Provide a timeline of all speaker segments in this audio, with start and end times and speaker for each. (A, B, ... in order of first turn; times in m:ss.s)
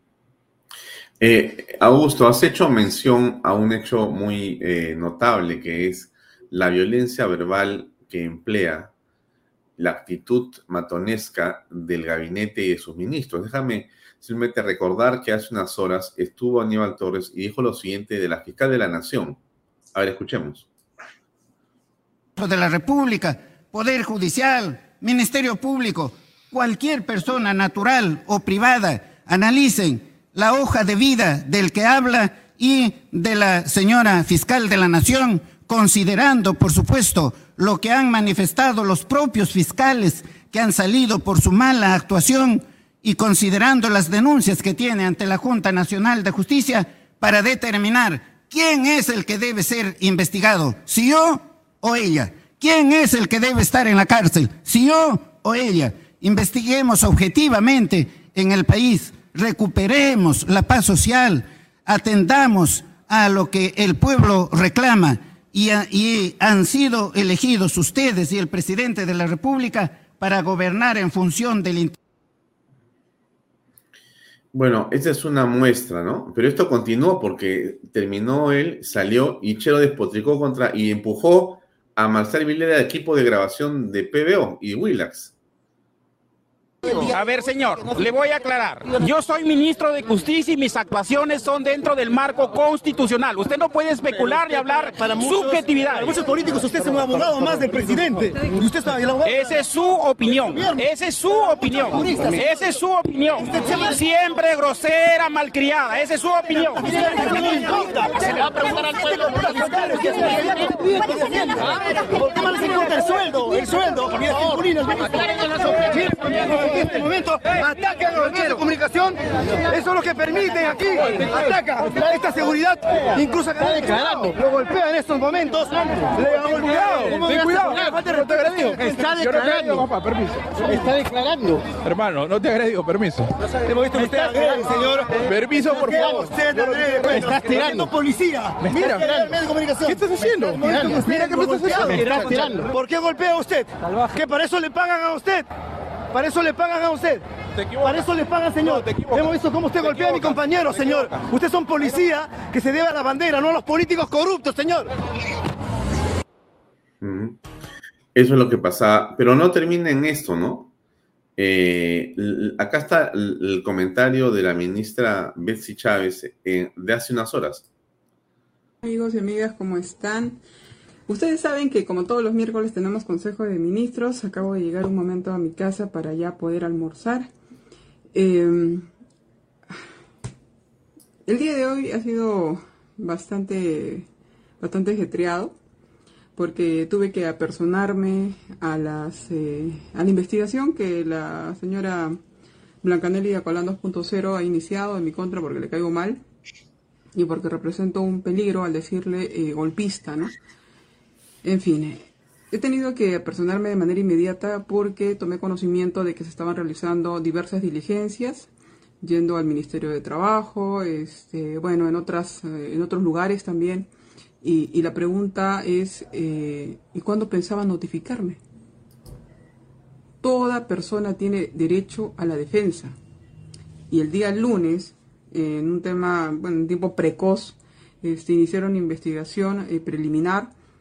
0:01.2-0:08.9 A
0:09.8-0:19.4 A
0:19.9-0:20.7 A
0:22.4-1:11.9 B
1:14.5-1:25.3 A
1:26.9-1:36.2 C
1:35.0-1:39.6 D
1:39.3-1:46.8 C
1:40.5-1:40.8 D
1:41.9-1:42.4 D
1:43.4-1:43.8 D
1:46.8-2:09.9 D
2:06.5-2:10.9 E
2:10.6-2:11.6 D
2:11.6-2:13.3 E
2:13.6-2:25.5 D
2:13.9-2:17.9 E
2:18.6-2:22.7 E
2:26.1-2:27.2 D
2:27.6-2:28.1 E
2:27.8-2:34.9 D
2:28.6-2:31.3 E
2:37.0-2:37.4 A
2:38.1-2:40.7 A
2:41.4-2:47.7 A
2:48.8-2:50.4 F
2:51.1-2:57.3 F
2:58.1-2:58.9 F
3:01.3-3:04.1 F
3:04.6-3:05.6 F
3:06.4-3:12.2 F
3:12.8-3:16.2 F
3:17.2-3:20.3 F
3:21.4-3:28.5 F
3:29.0-3:33.9 F
3:34.4-3:38.4 F
3:40.2-3:43.0 F
3:43.9-3:50.5 F